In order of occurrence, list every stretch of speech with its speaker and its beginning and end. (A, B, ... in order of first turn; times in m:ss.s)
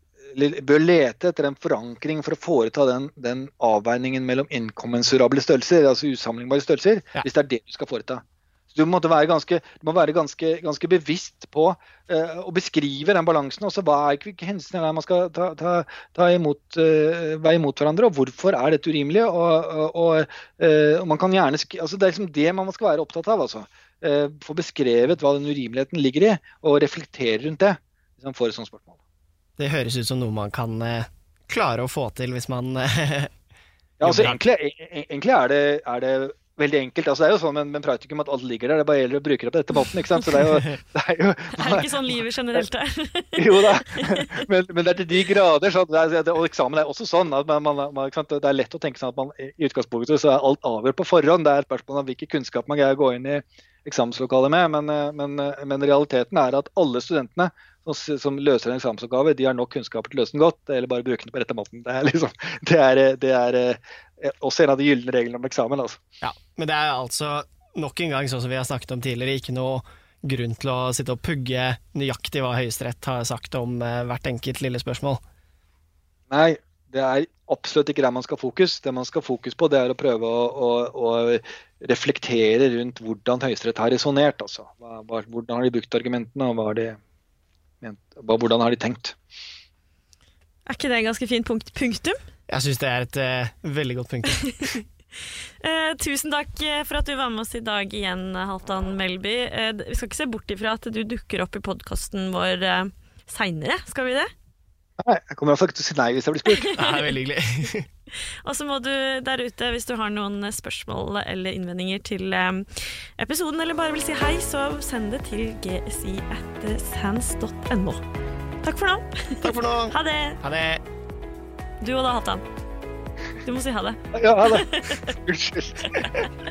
0:00.3-0:29.0 A
0:29.6-0:33.3 B
0:34.0-0:42.0 A
0:34.0-0:34.4 B
0:41.6-0:44.4 C
0:43.4-1:06.0 A
1:06.2-1:15.2 B
1:16.3-1:27.0 A
1:27.8-1:29.2 A
1:30.7-1:32.2 C
1:32.5-1:34.8 B
1:35.6-1:44.3 C
1:45.0-1:46.7 A
1:46.5-1:47.1 C
1:46.8-1:47.9 B
1:48.4-1:58.0 C
1:58.6-2:00.4 C
1:59.4-2:00.8 B
2:01.8-2:02.4 C
2:03.4-2:05.0 C
2:04.1-2:06.3 A